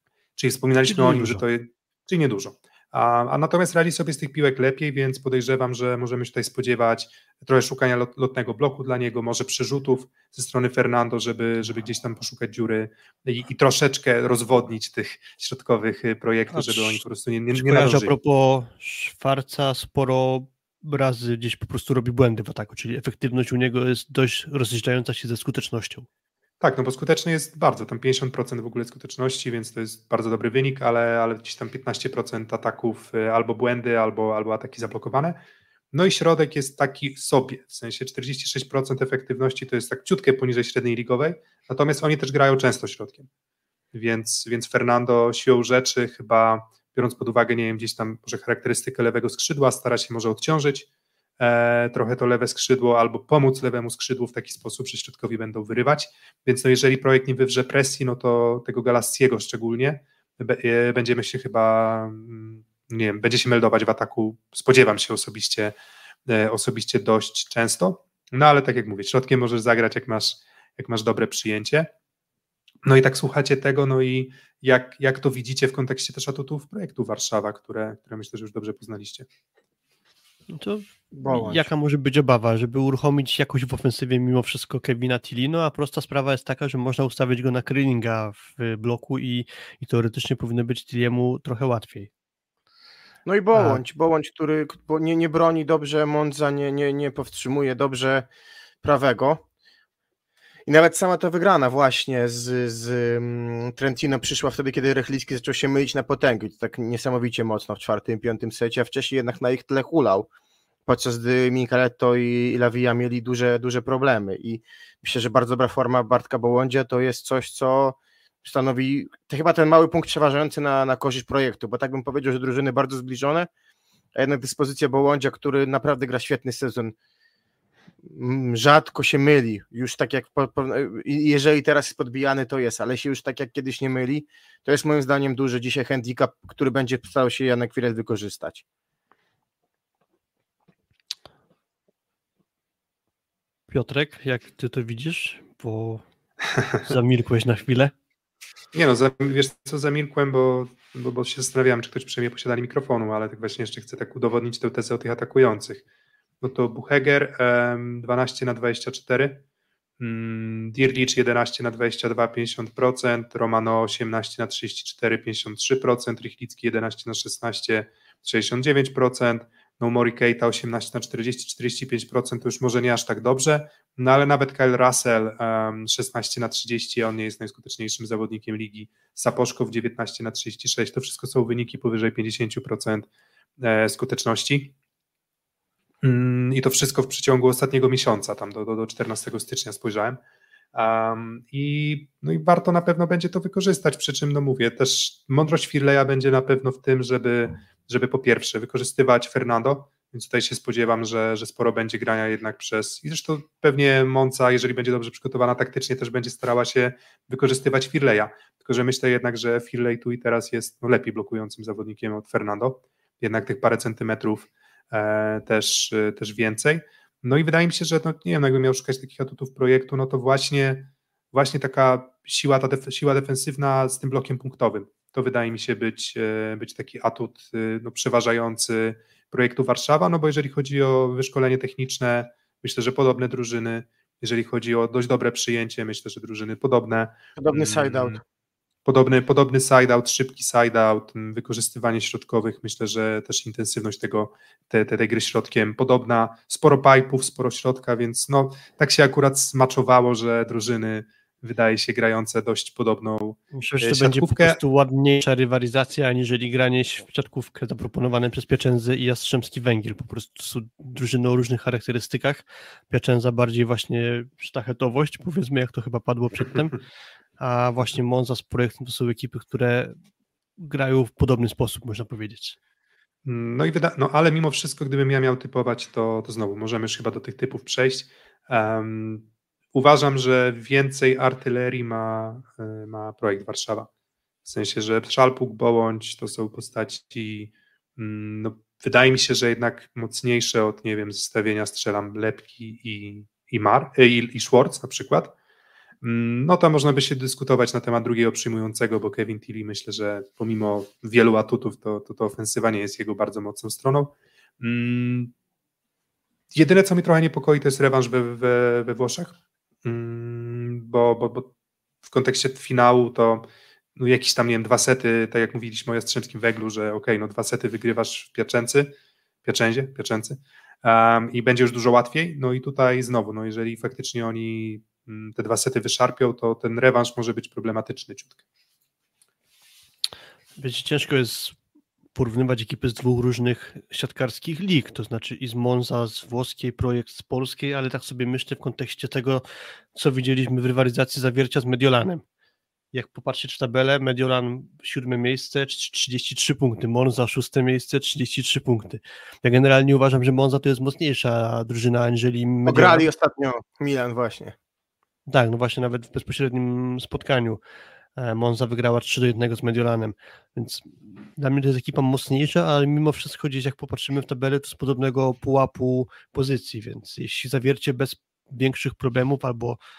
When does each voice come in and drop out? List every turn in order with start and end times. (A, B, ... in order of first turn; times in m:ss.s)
0:00.4-0:18.1 A
0:00.8-0:01.4 B
0:16.5-0:26.1 B
0:26.6-0:35.4 A
0:35.9-0:43.3 A
0:43.9-0:50.9 A
0:51.4-1:05.7 A
1:06.3-1:11.9 A
1:12.8-1:19.3 A
1:20.5-1:32.1 B
1:21.1-1:21.7 C
1:33.2-1:38.3 C
1:33.5-1:33.8 B
1:38.8-1:39.4 C
1:40.7-1:50.3 C
1:50.9-2:03.5 C
2:04.1-2:06.9 C
2:08.0-2:18.6 C
2:23.7-2:26.0 B
2:26.8-2:27.9 B
2:28.7-2:35.8 A
2:36.4-2:39.4 A
2:40.0-3:03.1 A
3:03.6-3:04.7 A
3:06.0-3:10.2 A
3:10.7-3:58.2 A
3:57.4-3:58.2 C
3:58.8-4:14.6 A
4:13.6-4:26.8 B
4:27.4-4:29.9 B
4:30.6-4:32.6 B
4:33.2-4:43.9 A
4:44.4-4:55.3 A
4:56.0-5:05.3 A
5:06.5-5:11.5 A
5:12.0-5:28.4 A
5:30.6-5:31.6 B
5:32.1-5:39.4 B
5:39.9-5:42.2 B
5:42.9-5:53.1 B
5:52.7-5:54.5 C
5:55.3-5:57.6 B
5:58.2-6:09.8 B